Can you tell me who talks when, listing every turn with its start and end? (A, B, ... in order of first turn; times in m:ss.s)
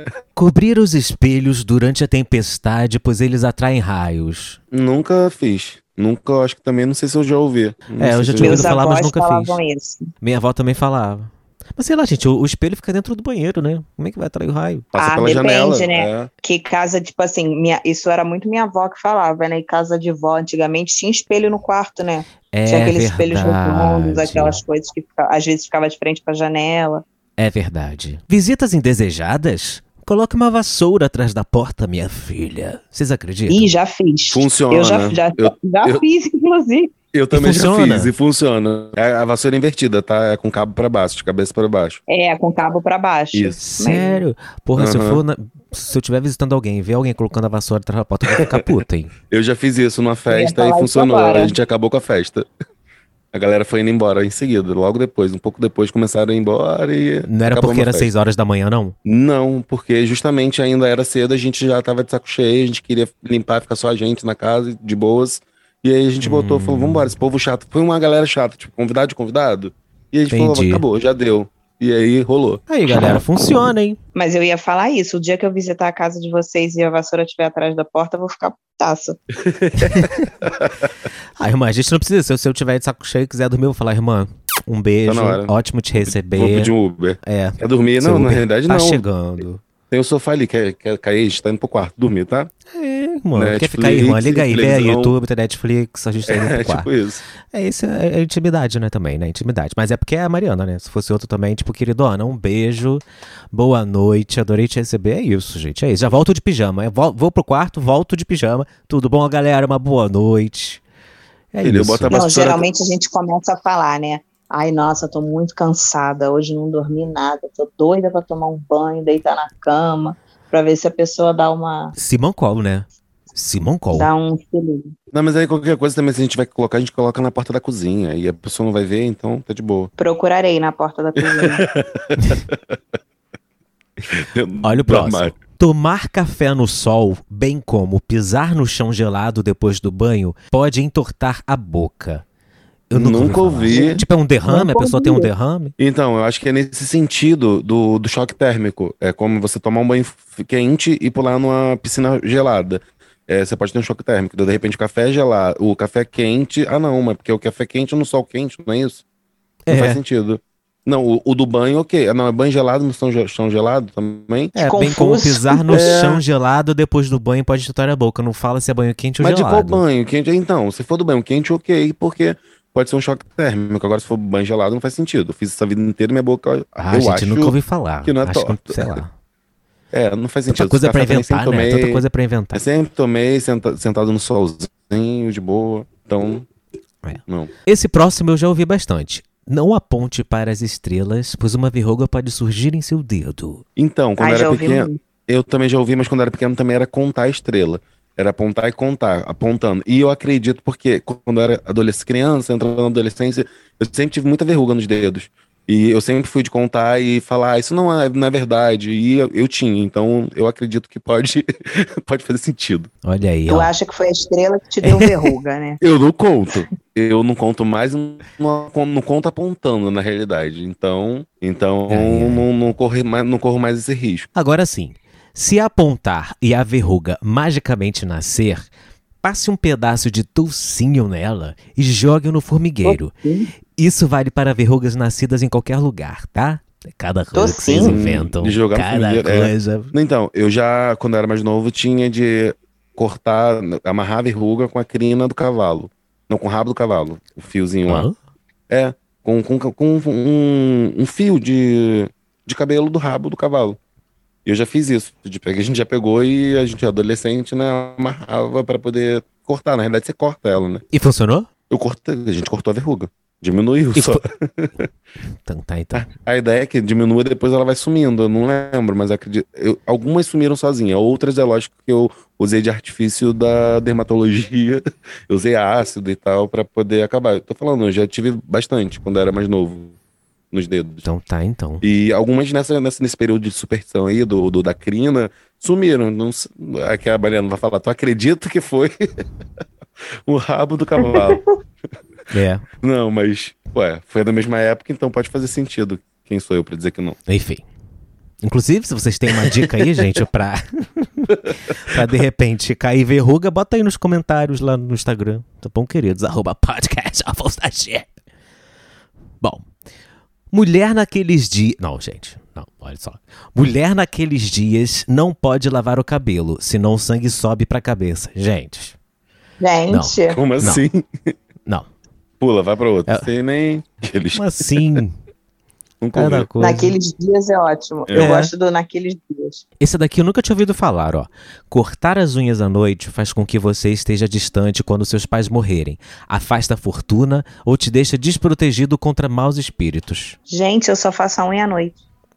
0:00.4-0:04.6 A
0:04.7-0:08.8 B
0:08.0-0:09.6 A
0:08.4-0:10.1 C
0:10.2-0:14.9 A
0:14.9-0:16.3 B
0:15.0-0:27.0 C
0:22.5-0:24.6 A
0:27.4-0:33.7 A
0:33.5-0:36.9 C
0:34.3-0:36.0 B
0:37.1-0:42.0 B
0:37.3-0:38.1 A
0:42.1-0:44.2 C
0:43.3-0:43.6 B
0:43.6-0:49.1 A
0:44.8-0:45.2 B
0:48.4-0:48.7 B
0:49.3-0:52.5 B
0:50.3-0:51.6 C
0:53.3-0:58.1 B
0:57.3-0:59.0 A
0:59.0-1:13.2 B
1:06.2-1:07.1 A
1:10.3-1:10.8 A
1:12.7-1:14.0 A
1:14.2-1:19.2 C
1:19.4-1:20.9 B
1:19.9-1:20.3 A
1:21.4-1:26.7 A
1:25.1-1:29.0 B
1:27.2-1:29.6 A
1:29.9-1:32.5 B
1:32.7-1:36.9 A
1:33.4-1:35.1 B
1:36.3-1:37.2 B
1:37.5-1:50.8 A
1:51.5-1:52.2 A
1:51.6-1:52.6 B
1:52.1-2:02.0 C
2:02.0-2:04.1 A
2:03.9-2:04.9 C
2:05.1-2:09.9 B
2:10.0-2:11.7 C
2:11.2-2:12.8 B
2:14.1-2:15.3 B
2:14.6-2:22.2 A
2:22.9-2:25.7 A
2:22.9-2:24.0 B
2:23.7-2:25.3 C
2:25.8-2:39.0 B
2:39.7-2:40.0 A
2:39.7-2:44.5 B
2:44.6-2:49.8 A
2:44.6-2:46.0 C
2:45.7-2:46.2 B
2:49.2-2:59.0 B
2:56.8-2:59.1 A
2:59.9-3:06.5 B
3:00.5-3:02.6 A
3:07.0-3:13.6 A
3:07.3-3:07.5 B
3:13.8-3:32.9 B
3:14.2-3:15.0 C
3:33.0-3:33.7 A
3:33.5-3:35.8 C
3:34.8-3:35.3 A
3:35.8-3:44.3 B
3:41.9-3:42.5 A
3:44.4-3:48.7 A
3:49.2-3:53.1 A
3:52.8-3:53.5 C
3:53.8-3:59.9 A
3:57.3-3:58.0 C
3:57.8-4:08.1 B
4:07.9-4:08.1 A
4:08.7-4:13.8 B
4:14.5-4:20.8 B
4:20.9-4:21.5 A
4:21.7-4:24.9 B
4:24.0-4:24.2 A
4:25.5-4:26.1 A
4:25.9-4:40.0 B
4:40.5-4:41.1 B
4:41.0-4:41.8 A
4:41.8-4:49.1 B
4:50.3-4:51.4 B
4:51.0-4:51.4 C
4:52.3-4:52.7 A
4:52.8-4:57.2 B
4:57.3-4:57.6 A
4:58.4-5:08.1 A
4:59.5-4:59.9 B
5:10.5-5:19.0 A
5:19.6-5:20.4 C
5:19.9-5:20.8 A
5:20.3-5:21.3 B
5:22.4-5:25.0 B
5:24.4-5:25.2 A
5:26.0-5:26.5 B
5:26.2-5:27.0 A
5:26.6-5:29.6 C
5:28.2-5:28.5 A
5:29.8-5:40.4 A
5:40.5-5:42.0 C